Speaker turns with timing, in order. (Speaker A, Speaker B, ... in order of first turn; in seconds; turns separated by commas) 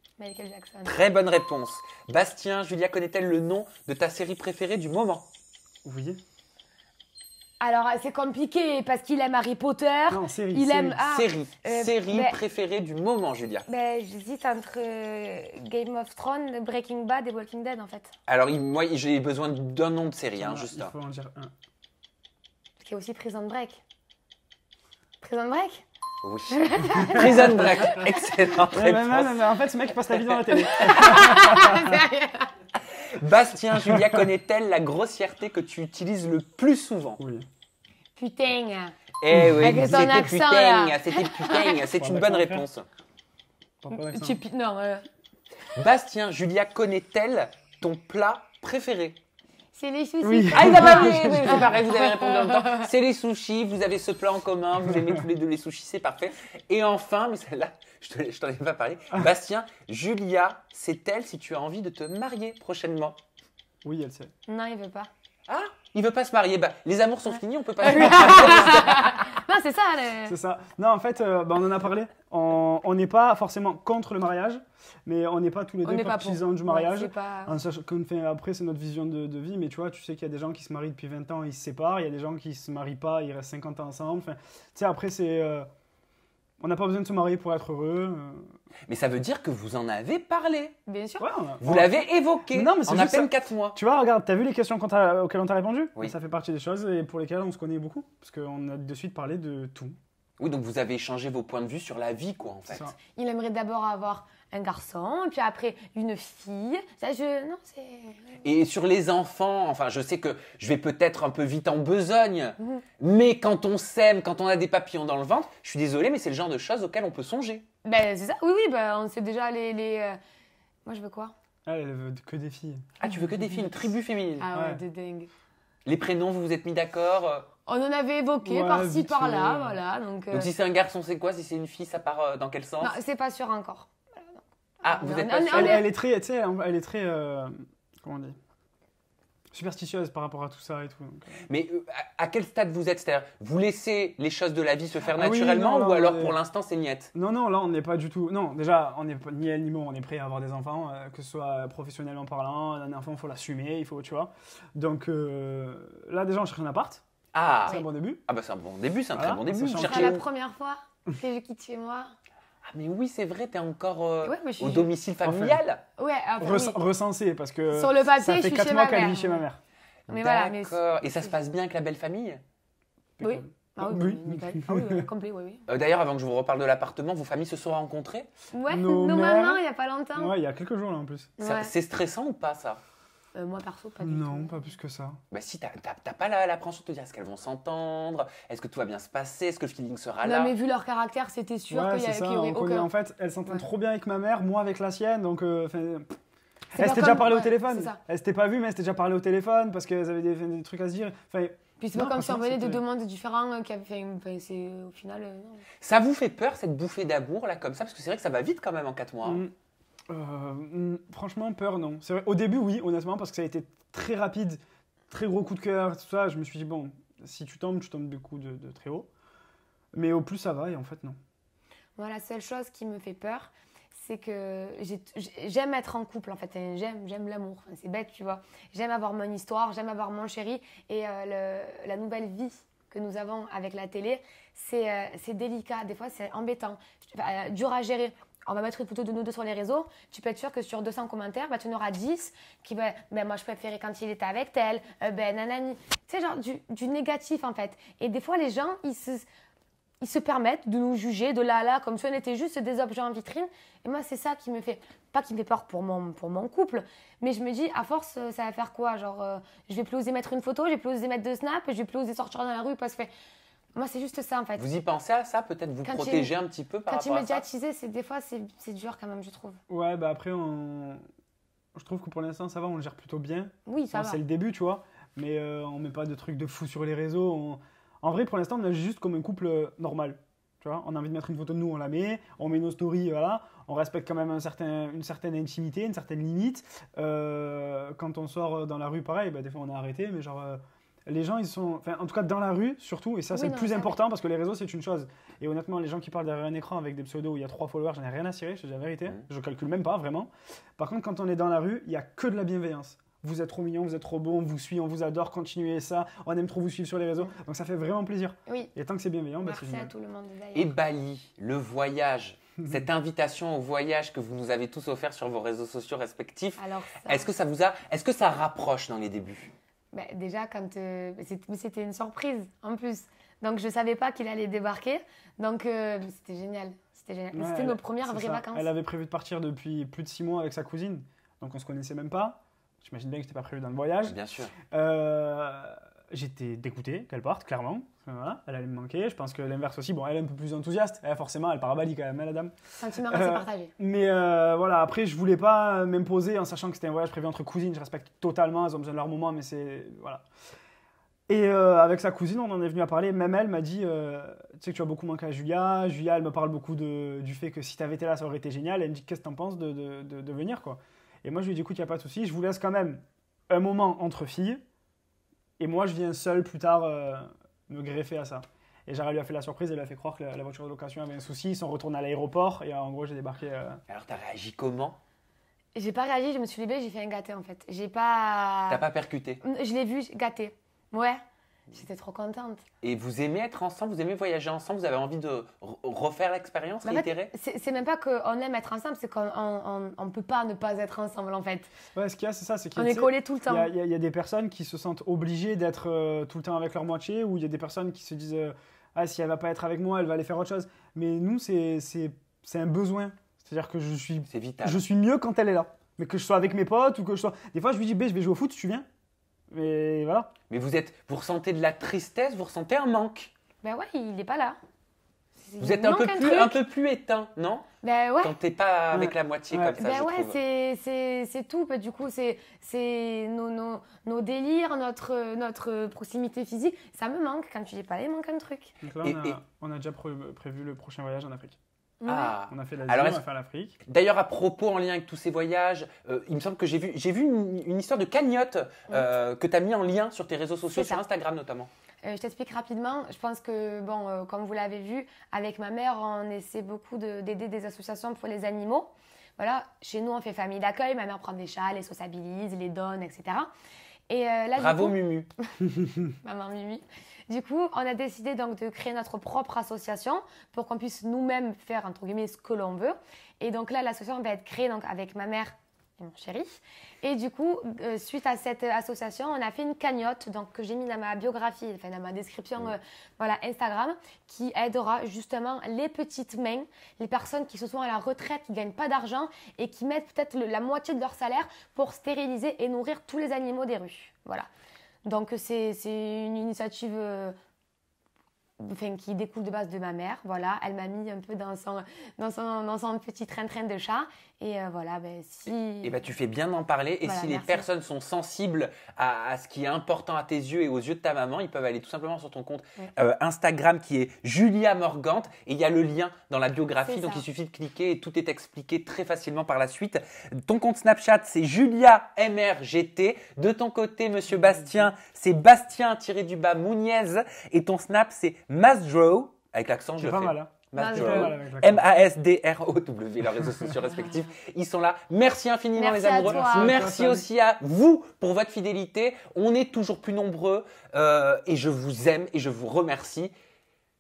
Speaker A: 0.2-1.0, Speaker B: 0.8-5.2, Speaker C: 5.8-6.2, Speaker A: 7.6-12.4, Speaker C: 10.1-11.0, Speaker B: 11.0-13.7, Speaker A: 13.7-18.1, Speaker B: 18.3-20.9, Speaker C: 20.4-21.5, Speaker A: 22.8-23.8, Speaker A: 25.2-25.9, Speaker B: 26.2-29.5, Speaker A: 26.5-28.1, Speaker C: 27.0-27.5, Speaker C: 28.7-32.0, Speaker A: 30.5-32.5, Speaker B: 32.9-37.2, Speaker C: 33.7-34.2, Speaker C: 37.2-37.5, Speaker A: 38.2-39.0, Speaker B: 39.2-42.9, Speaker C: 39.3-40.3, Speaker A: 39.6-41.9, Speaker C: 41.9-42.6, Speaker C: 43.8-44.4, Speaker A: 43.9-45.1, Speaker B: 45.7-49.2, Speaker A: 49.7-52.9, Speaker C: 50.2-51.7, Speaker B: 50.5-63.2, Speaker C: 63.8-64.3, Speaker A: 64.5-65.1, Speaker B: 65.5-69.4, Speaker A: 67.8-70.4, Speaker C: 68.0-68.7, Speaker C: 70.2-85.7, Speaker A: 75.8-77.6, Speaker C: 86.6-88.5, Speaker B: 88.9-90.7, Speaker A: 90.9-91.3, Speaker C: 91.2-100.0, Speaker B: 91.6-93.8, Speaker B: 100.4-102.9, Speaker C: 102.7-102.9, Speaker A: 103.1-108.4, Speaker B: 108.4-117.6, Speaker A: 117.8-120.2, Speaker A: 120.9-121.3, Speaker C: 121.7-123.7, Speaker B: 123.0-124.5, Speaker A: 124.4-125.3, Speaker C: 124.5-124.8, Speaker B: 125.9-127.5, Speaker A: 127.7-130.5, Speaker C: 128.4-129.8, Speaker B: 130.3-132.9, Speaker A: 132.8-135.9, Speaker B: 134.8-135.8, Speaker C: 135.5-138.4, Speaker C: 139.5-141.4, Speaker B: 141.4-147.1, Speaker C: 145.1-146.4, Speaker C: 147.1-157.0, Speaker B: 157.3-160.2, Speaker C: 157.7-158.2, Speaker C: 159.1-160.2, Speaker A: 159.8-162.1, Speaker B: 162.7-165.8, Speaker A: 164.2-164.9, Speaker C: 165.2-165.6, Speaker A: 166.0-166.8, Speaker C: 166.4-169.6, Speaker A: 167.7-169.4, Speaker A: 170.1-171.3, Speaker B: 170.1-172.4, Speaker C: 173.2-175.1, Speaker A: 173.2-175.6, Speaker B: 175.7-178.3, Speaker A: 178.5-180.3, Speaker C: 178.7-179.6, Speaker C: 180.2-181.3, Speaker A: 181.4-181.7, Speaker B: 181.4-182.8, Speaker A: 183.3-184.7, Speaker C: 184.0-185.2, Speaker B: 185.3-190.5, Speaker A: 190.2-192.9, Speaker C: 191.7-196.2, Speaker A: 196.7-198.0, Speaker C: 196.7-202.8, Speaker A: 201.8-205.6, Speaker B: 205.8-209.4, Speaker C: 209.2-209.5, Speaker C: 210.1-219.1, Speaker C: 219.9-221.2, Speaker A: 222.0-249.2, Speaker A: 250.0-263.1, Speaker A: 263.7-264.6, Speaker B: 264.6-267.4, Speaker A: 265.9-266.3, Speaker A: 266.9-269.6, Speaker C: 269.7-271.0, Speaker C: 271.7-309.9, Speaker A: 273.7-274.2, Speaker A: 293.3-294.0, Speaker A: 309.4-310.7, Speaker B: 310.5-319.5, Speaker A: 316.6-317.3, Speaker A: 319.9-328.7, Speaker C: 327.3-334.2, Speaker B: 334.0-334.5, Speaker C: 334.7-342.5, Speaker A: 342.8-343.7, Speaker C: 343.1-350.2, Speaker C: 351.3-364.6, Speaker C: 365.6-373.8, Speaker B: 373.9-375.0, Speaker A: 375.7-378.8, Speaker B: 378.7-379.4, Speaker A: 379.4-382.6, Speaker B: 382.8-387.3, Speaker A: 386.8-391.7, Speaker C: 391.9-408.9, Speaker A: 392.8-393.7, Speaker B: 404.3-404.8, Speaker C: 409.5-410.3, Speaker B: 410.5-413.3, Speaker A: 413.6-414.6, Speaker A: 415.4-416.6, Speaker B: 415.6-417.6, Speaker A: 417.8-418.4, Speaker B: 418.2-420.4, Speaker C: 418.9-419.8, Speaker A: 419.8-428.8, Speaker C: 428.8-431.6, Speaker B: 429.0-429.4, Speaker A: 432.0-432.4, Speaker B: 432.1-433.2, Speaker C: 432.5-433.8, Speaker B: 433.9-441.7, Speaker A: 440.7-441.0, Speaker A: 442.0-453.5, Speaker A: 454.1-484.5, Speaker B: 454.6-455.3, Speaker A: 485.1-487.4, Speaker A: 488.6-496.0, Speaker B: 495.8-533.3, Speaker A: 497.0-497.6, Speaker A: 506.8-507.2, Speaker C: 520.0-521.9, Speaker A: 520.7-521.4, Speaker C: 523.5-523.7, Speaker A: 525.8-526.8, Speaker C: 526.2-527.2